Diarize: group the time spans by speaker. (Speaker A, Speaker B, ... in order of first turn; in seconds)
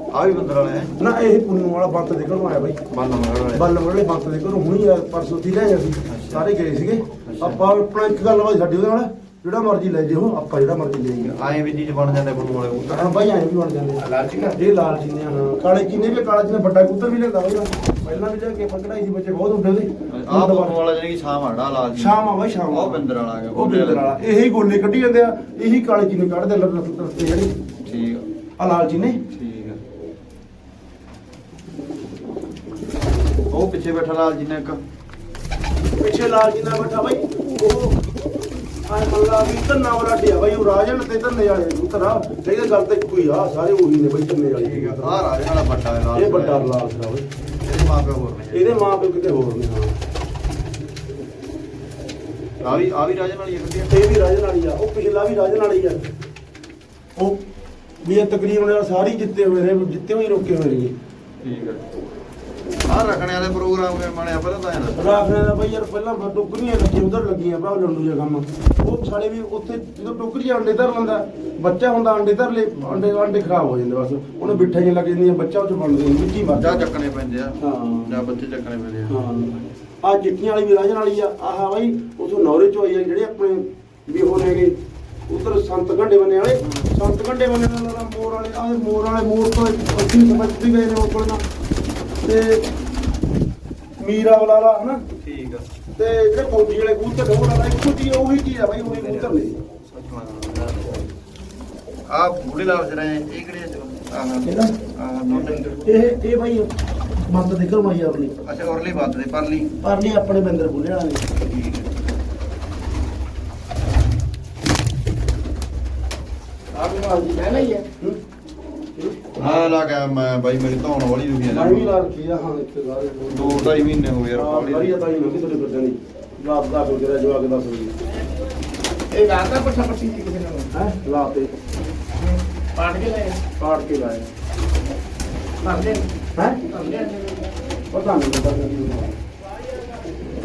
Speaker A: 0.1-0.9, 2.9-3.7, 6.1-6.4, 7.2-7.6, 11.2-13.1, 20.1-24.2, 27.8-28.2, 29.3-29.8, 33.5-34.8, 44.5-46.6, 47.4-48.8, 52.6-54.0, 61.4-61.8, 62.8-65.2, 72.7-73.0, 74.4-74.8, 76.5-79.1, 86.5-87.0, 95.2-95.7, 98.8-101.1, 102.1-106.1, 108.4-109.7, 111.5-111.9, 119.4-121.9, 123.3-125.0
Speaker B: 1.0-2.8, 3.5-11.3, 12.9-20.8, 21.9-27.5, 28.6-29.2, 36.0-38.0, 38.9-45.2, 46.1-47.2, 48.5-49.9, 53.9-56.0, 58.0-60.9, 64.9-76.9, 77.6-78.1, 79.1-84.8, 85.3-91.4, 92.2-92.7, 94.0-95.0, 96.0-99.5, 104.4-104.8, 105.8-108.3, 109.8-111.3, 117.4-118.2, 119.0-119.6, 121.5-127.9, 130.7-131.5, 133.6-134.2, 136.3-136.6, 137.9-139.2
Speaker C: 14.0-14.5, 116.7-117.8, 129.1-130.7, 132.2-134.2, 135.6-136.1, 136.7-137.5, 139.7-140.0